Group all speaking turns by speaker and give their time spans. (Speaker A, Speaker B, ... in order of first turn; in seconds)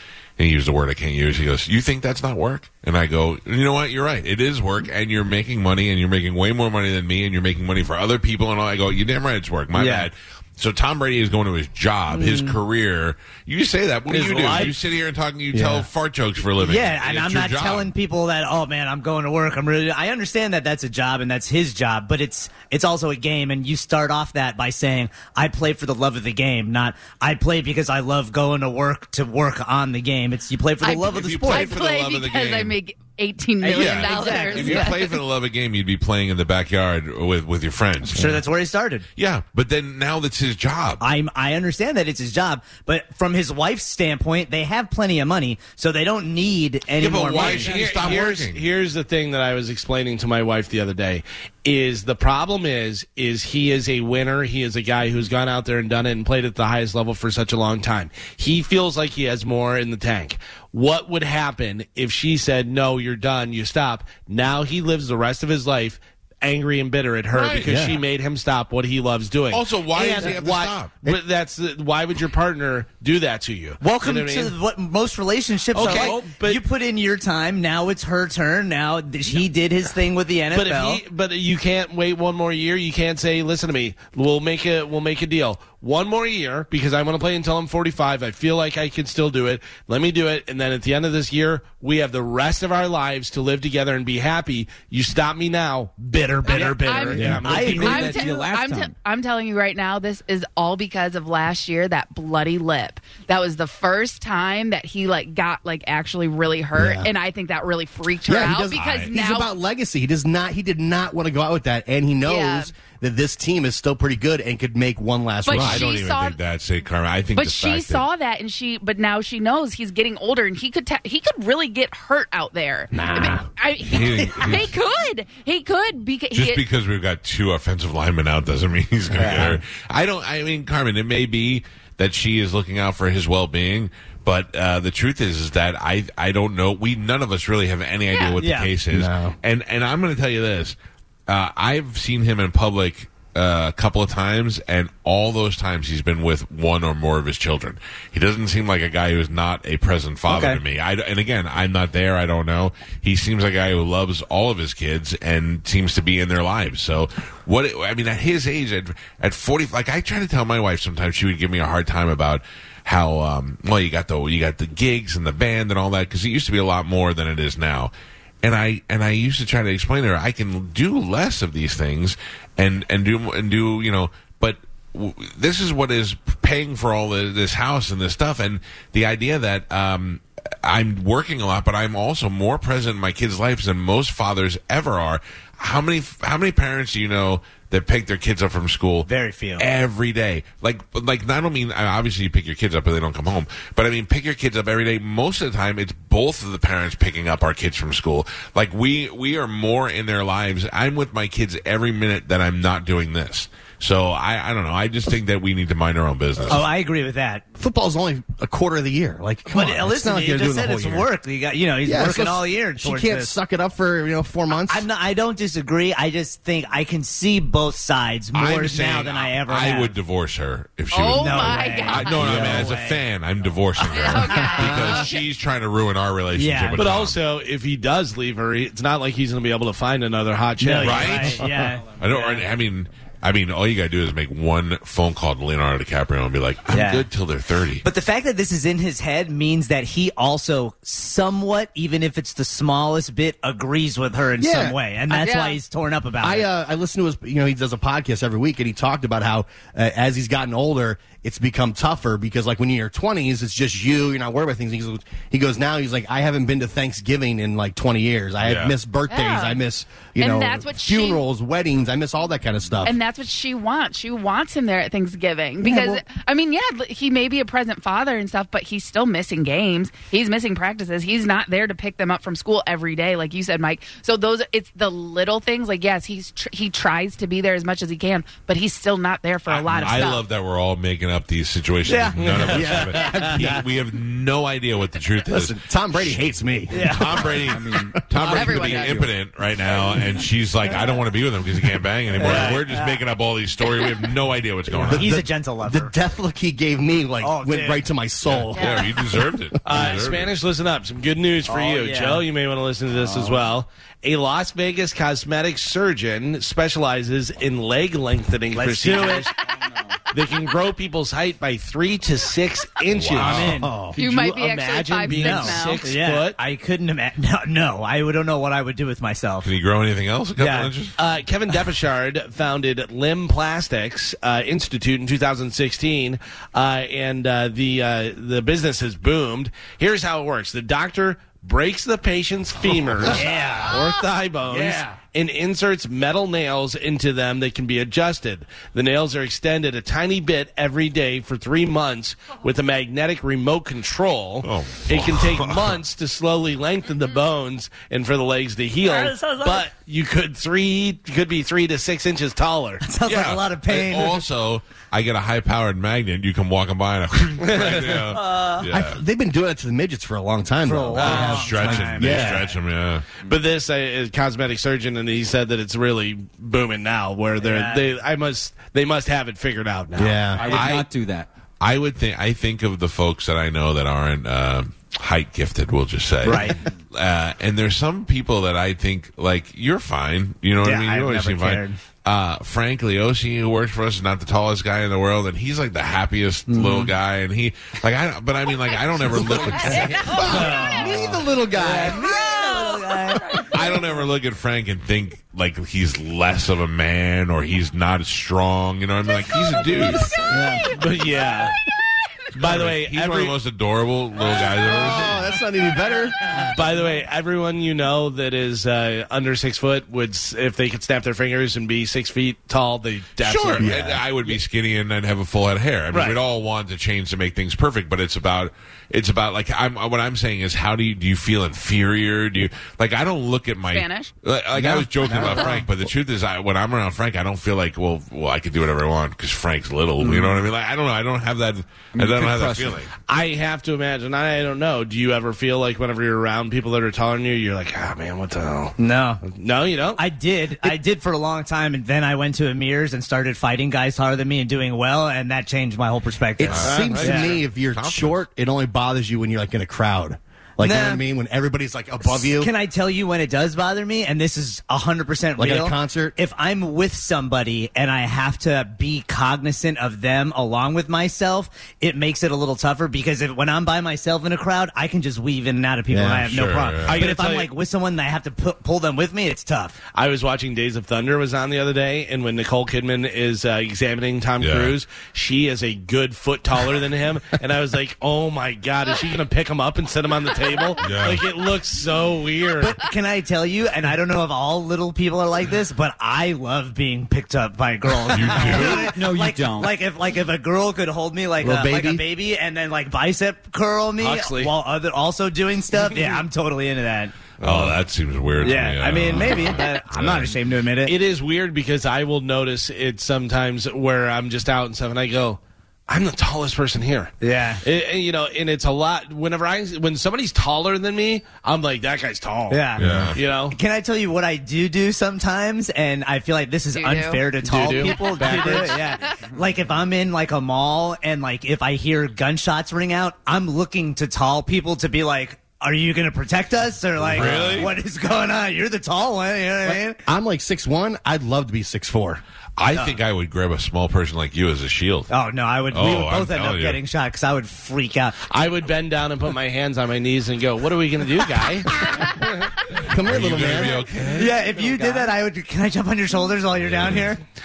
Speaker A: 0.4-17.9, 31.0-32.8, 33.7-38.3, 39.2-41.0, 47.0-48.7, 67.3-67.7, 69.5-70.9, 108.7-109.2, 115.5-118.1, 123.8-124.7, 126.3-140.8, 141.3-167.9, 168.4-206.7, 218.3-227.2, 230.8-237.8, 258.4-258.8, 279.5-286.2, 286.9-295.1, 298.2-300.4, 312.9-313.7, 319.4-321.0, 344.4-345.8, 353.1-359.0, 361.0-363.1, 370.4-370.9, 371.6-390.6, 393.5-400.1, 402.4-405.2, 413.5-432.9, 446.5-448.2, 466.3-467.0, 474.4-474.8, 480.8-481.2, 488.1-488.9, 497.4-500.4, 512.8-513.2, 527.1-527.7, 532.6-535.1, 535.7-536.8, 542.9-544.4, 546.6-547.1
Speaker B: 9.7-10.1, 12.1-12.6, 14.1-14.7, 16.6-31.7, 33.6-35.0, 38.1-39.0, 41.0-47.8, 70.0-70.4, 73.8-81.0, 96.5-98.5, 129.2-129.6, 138.4-138.7, 150.3-150.6, 189.1-189.7, 206.5-207.4, 209.5-213.3, 214.7-219.9, 221.2-223.0, 224.0-225.1, 226.3-226.8, 230.6-232.4, 236.7-237.1, 237.8-246.5, 281.9-283.6, 286.7-287.3, 292.2-293.0, 294.9-295.9, 297.2-297.9, 301.5-302.3, 303.0-303.4, 308.5-309.3, 313.2-314.0, 315.1-319.5, 320.4-320.7, 333.1-334.0, 334.5-334.8, 348.9-349.7, 352.8-354.2, 358.1-358.7, 360.6-362.5, 367.4-367.9, 376.2-376.6, 380.6-381.8, 386.5-386.9, 389.7-393.6, 400.2-400.8, 424.6-425.7, 430.0-430.4, 438.8-439.2, 440.0-447.4, 450.6-451.1, 452.0-469.8, 482.6-497.2, 498.4-501.0, 507.2-507.6, 512.5-530.0, 535.1-538.2, 544.1-547.2
Speaker C: 14.1-14.7, 47.3-74.5, 75.7-76.6, 80.5-98.2, 226.8-231.7, 282.2-282.5, 299.6-309.3, 310.1-316.4, 321.0-352.9, 357.4-358.1, 361.0-361.4, 363.2-370.3, 400.7-401.6, 402.4-403.4, 406.4-413.7, 415.9-416.2, 433.0-440.0, 446.6-447.4, 466.9-467.5, 469.9-482.8, 494.0-494.6, 500.8-513.6, 517.4-518.8, 527.2-527.6, 538.3-541.7
Speaker D: 15.5-15.9, 38.2-38.4, 67.7-68.0, 97.2-97.4, 106.8-107.1, 108.2-115.9, 122.9-123.5, 129.1-129.5, 138.9-139.4, 207.6-211.1, 211.8-214.9, 244.4-244.8, 246.2-263.0, 265.6-266.0, 282.4-283.6, 285.3-288.0, 294.7-299.0, 358.6-362.5, 370.0-370.7, 389.1-392.7, 404.6-406.2, 413.6-414.0, 446.4-452.5, 455.4-456.2, 465.9-466.4, 491.4-492.1, 529.7-532.2, 542.8-543.8
Speaker E: 30.8-35.2, 96.5-109.5, 112.2-112.7, 115.4-116.4, 117.3-126.6, 138.1-138.4, 220.9-222.4, 223.8-225.2, 245.1-245.6, 259.1-259.6, 260.2-261.2, 262.9-280.3, 288.2-289.1, 298.5-298.9, 313.9-315.9, 399.6-400.2, 423.6-424.1, 516.7-517.3, 517.8-519.2
Speaker F: 75.8-76.4, 97.2-98.9, 287.4-288.0, 370.3-371.3, 389.1-389.4, 389.9-390.4, 431.9-432.9, 488.4-489.9